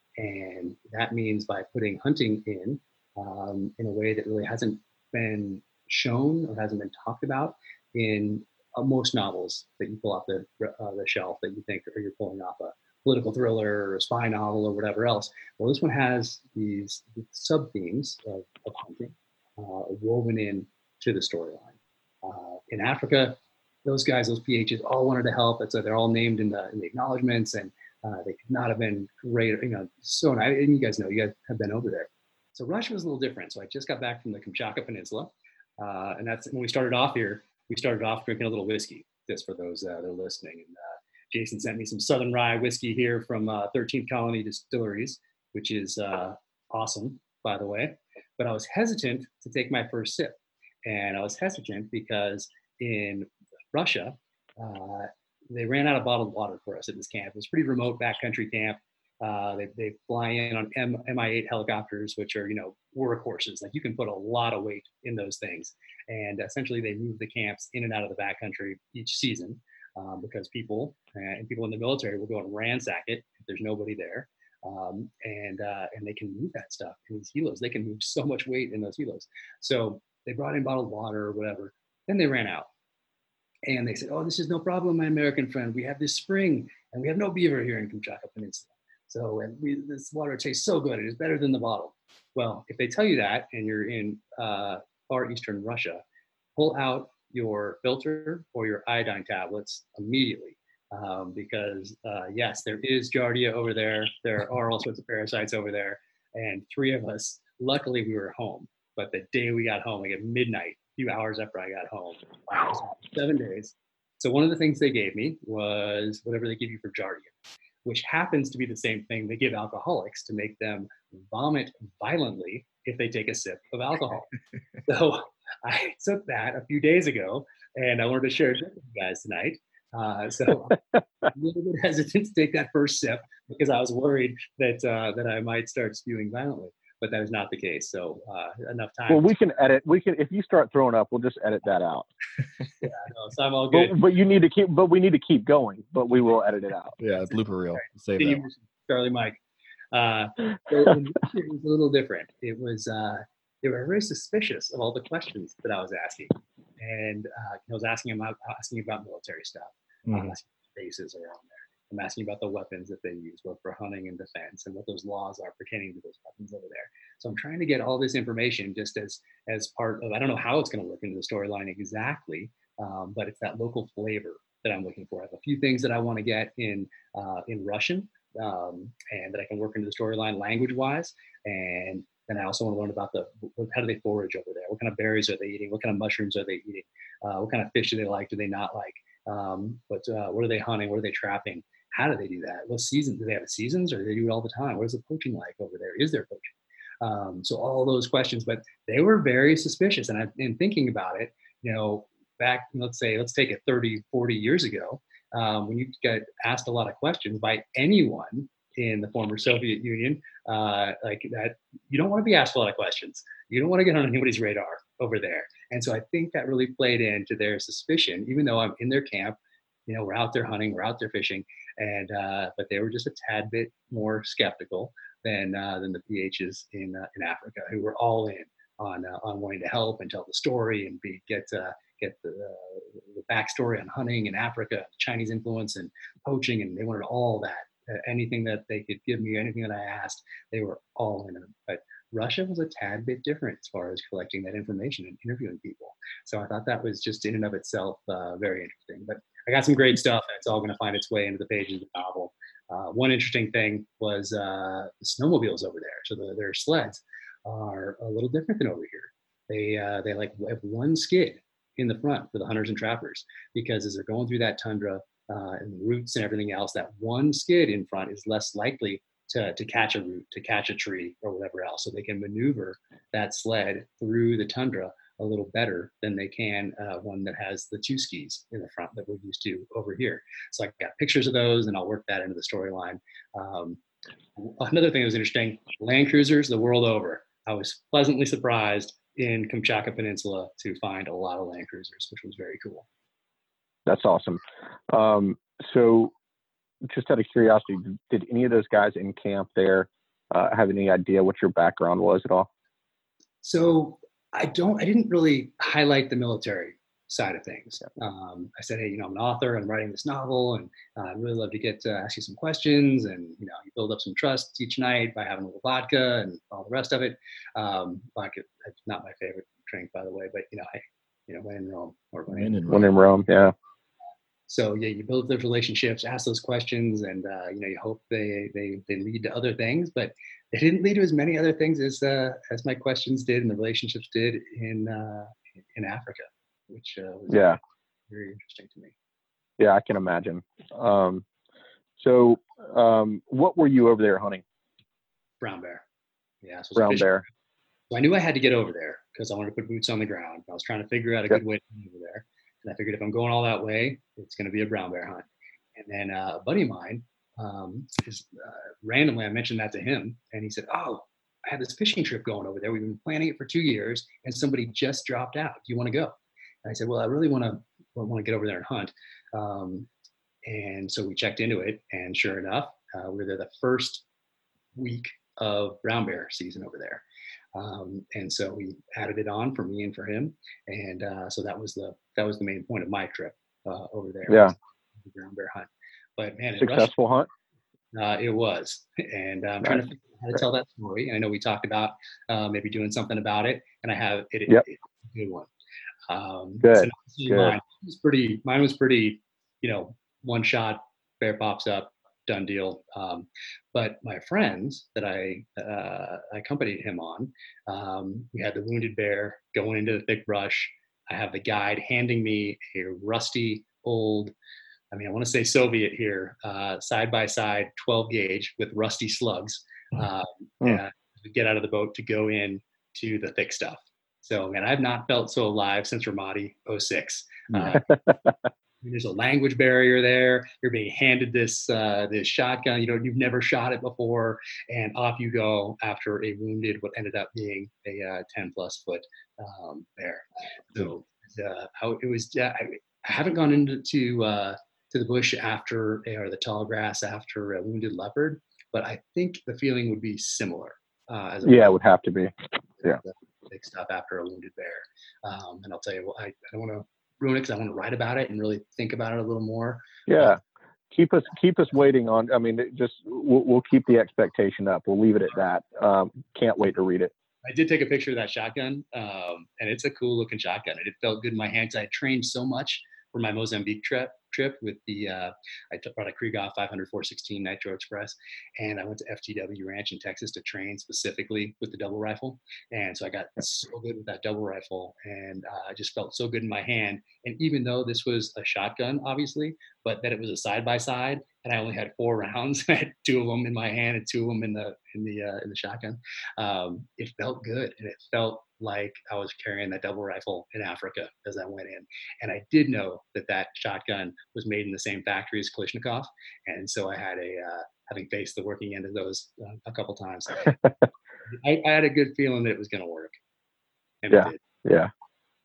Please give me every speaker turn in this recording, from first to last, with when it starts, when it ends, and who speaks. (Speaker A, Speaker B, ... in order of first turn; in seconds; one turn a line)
Speaker A: 0.2-40.8
Speaker A: 41.3-82.7
Speaker A: 83.7-96.0
Speaker A: 96.6-124.3
Speaker A: 124.9-139.3
Speaker B: 139.1-142.1
Speaker A: 142.8-144.0
Speaker B: 143.7-147.0
Speaker C: 147.0-148.4
Speaker A: 147.3-149.4
Speaker A: 149.9-196.5
Speaker C: 160.1-160.3
Speaker A: 197.0-283.8
Speaker A: 284.4-292.9
Speaker B: 293.9-296.1
Speaker B: 296.9-302.5
Speaker A: 303.4-322.9
Speaker C: 322.3-322.9
Speaker B: 322.7-323.5
Speaker A: 324.5-338.9
Speaker B: 337.3-337.6
Speaker B: 339.6-341.2
Speaker B: 342.0-344.4
Speaker A: 345.4-345.8
Speaker A: 346.4-347.1
Speaker B: 346.8-347.2
Speaker A: 347.9-369.9
Speaker A: 370.5-374.0
Speaker A: 374.8-377.0
Speaker A: 377.6-386.9
Speaker B: 384.3-384.5
Speaker B: 386.6-387.3
Speaker A: 387.9-395.5
Speaker A: 396.1-414.3
Speaker B: 396.6-397.6
Speaker A: 414.9-427.9
Speaker B: 427.6-428.3
Speaker A: 428.8-451.8
Speaker B: 451.4-452.3
Speaker A: 452.8-460.4
Speaker B: 460.1-460.4
Speaker B: 460.9-467.1
Speaker A: 467.4-510.6
Speaker A: 511.3-513.1
Speaker A: 514.0-514.4
Speaker B: 514.1-514.9